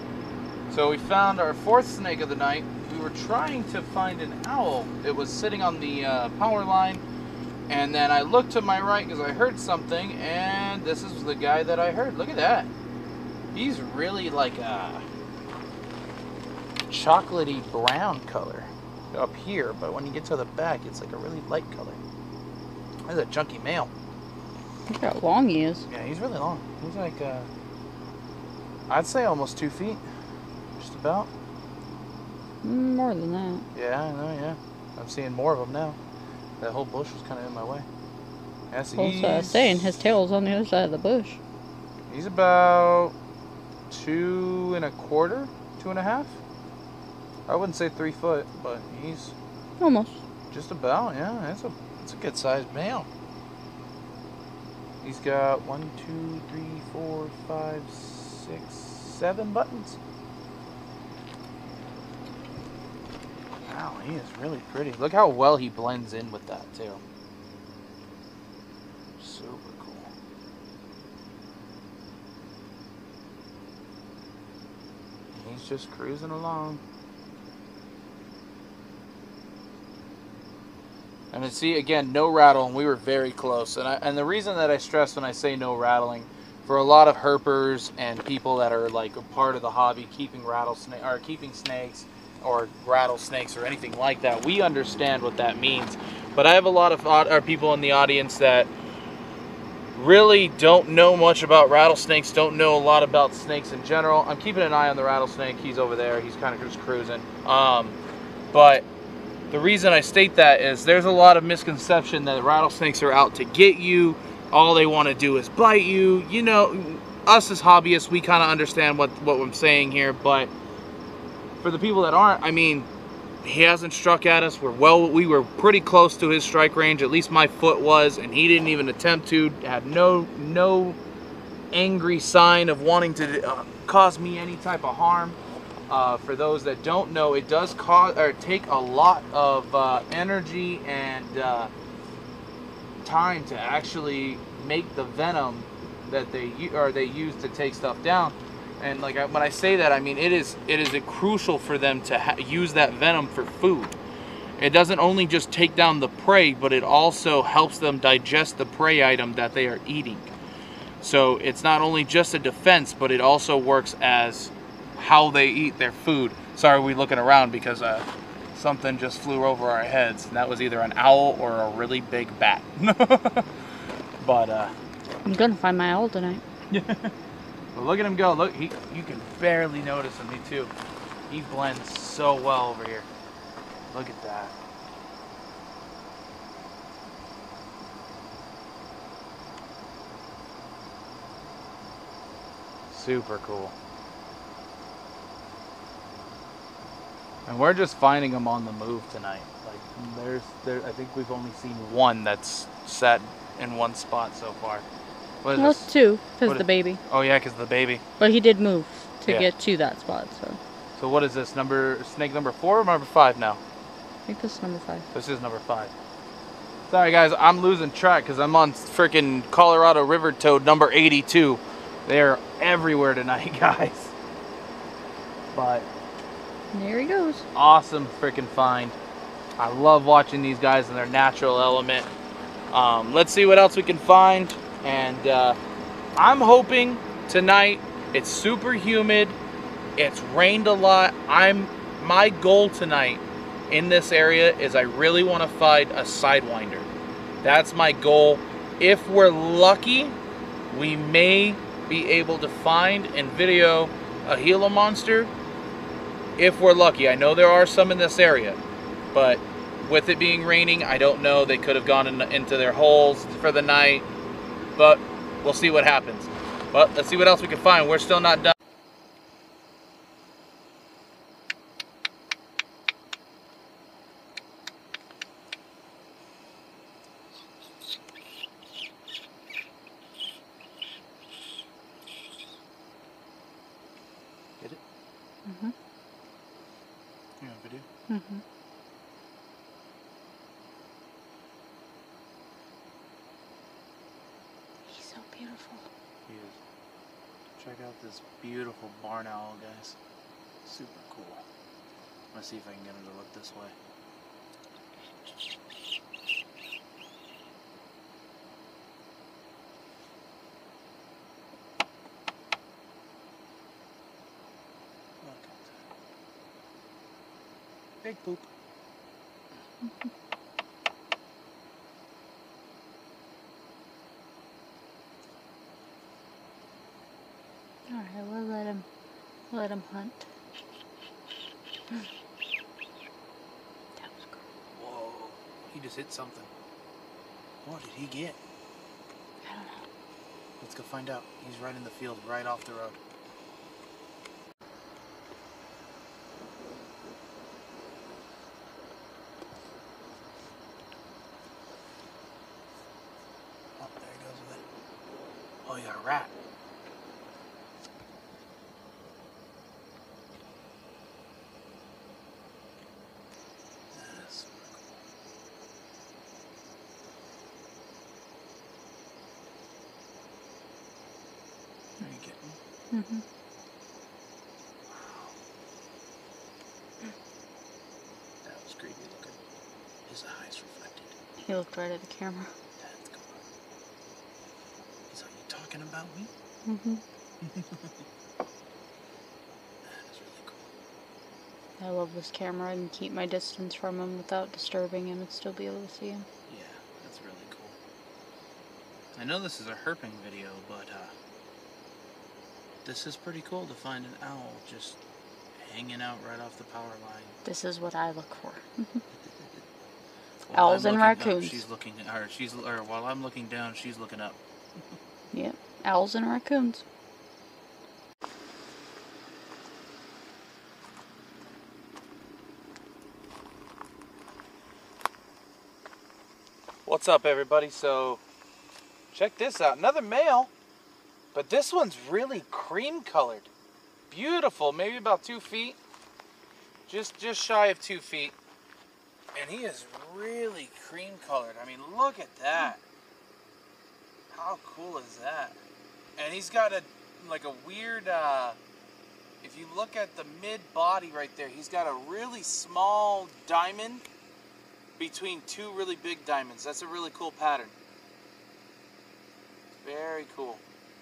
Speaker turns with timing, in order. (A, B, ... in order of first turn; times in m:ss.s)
0:00.7-0:07.0 A
0:07.7-0:12.7 A
0:13.5-0:15.1 A
0:16.9-0:22.0 A
0:23.1-0:23.9 A
0:24.9-0:25.9 B
0:25.9-0:27.5 A
0:28.9-0:30.0 A
0:30.8-0:31.3 A
0:32.6-0:33.6 B
0:33.7-0:36.0 A
0:36.6-0:37.9 A
0:38.7-0:40.0 A
0:39.0-0:41.4 B
0:42.1-0:43.2 A
0:43.9-0:46.4 A
0:47.5-0:49.4 A
0:49.8-0:50.2 B
0:50.5-0:53.1 A
0:55.0-1:00.0 A
1:03.6-1:07.0 A
1:09.2-1:10.1 A
1:15.3-1:16.8 A
1:21.3-1:38.7 A
1:39.9-1:48.0 A
1:48.5-1:48.9 A
1:49.5-2:00.5 A
2:01.6-2:02.9 A
2:03.4-2:11.0 A
2:11.7-2:15.4 A
2:15.9-2:21.7 A
2:23.0-2:34.0 A
2:34.6-2:40.3 A
2:41.0-2:53.5 A
2:54.2-2:54.8 A
2:55.2-2:56.4 B
2:56.7-2:57.1 A
2:57.8-3:00.7 A
3:01.3-3:03.1 A
3:03.9-3:04.6 A
3:12.9-3:13.8 A
3:17.5-3:24.9 A
3:25.4-3:25.9 A
3:25.6-3:27.0 B
3:26.5-3:28.0 A
3:28.2-3:30.6 B
3:31.0-3:33.6 A
3:34.3-3:35.1 B
3:35.1-3:35.9 A
3:36.9-3:44.2 A
3:45.5-3:45.9 A
3:46.7-3:47.5 B
3:47.5-3:49.0 A
3:49.6-3:52.1 A
3:52.7-3:55.6 A
3:56.2-3:59.4 A
4:00.0-4:06.9 A
4:07.4-4:10.2 A
4:10.7-4:15.3 A
4:16.4-4:18.6 A
4:19.1-4:24.1 A
4:24.8-4:28.6 A
4:45.5-4:45.8 B
4:47.4-4:47.9 A
4:48.1-4:48.4 B
4:54.9-4:55.9 B
4:56.3-4:56.6 A
4:57.6-5:00.0 A
5:00.6-5:01.4 A
5:02.3-5:03.8 A
5:15.2-5:15.8 A
5:18.0-5:18.5 A
5:27.9-5:28.9 B
5:29.5-5:30.3 B
5:34.0-5:34.4 B
5:34.7-5:36.5 A
5:37.6-5:38.4 A
5:39.4-5:39.8 B
5:40.6-5:43.0 A
5:53.8-5:54.6 A
5:55.7-5:56.3 A
6:03.9-6:04.8 A
6:12.0-6:12.6 A
6:12.9-6:13.2 B
6:14.9-6:15.3 A
6:18.4-6:19.4 A
6:20.1-6:21.1 A
6:21.4-6:22.5 B
6:22.8-6:23.4 A
6:25.1-6:26.3 A
6:26.6-6:27.0 B
6:27.4-6:27.9 A
6:29.9-6:30.6 A
6:31.8-6:36.3 B
6:36.5-6:37.8 A
6:39.1-6:41.1 A
6:42.8-6:45.0 A
6:45.6-6:47.4 A
6:47.4-6:49.0 B
6:49.2-6:49.6 A
6:50.5-6:54.4 A
6:50.5-6:51.6 B
6:55.3-6:56.8 B
7:06.9-7:08.2 A
7:09.1-7:10.5 A
7:11.3-7:13.5 A
7:14.1-7:15.8 A
7:16.9-7:18.4 A
7:19.3-7:22.8 A
7:24.3-7:25.6 A
7:26.2-7:28.6 A
7:29.4-7:34.0 A
7:35.0-7:37.8 A
7:39.8-7:40.6 A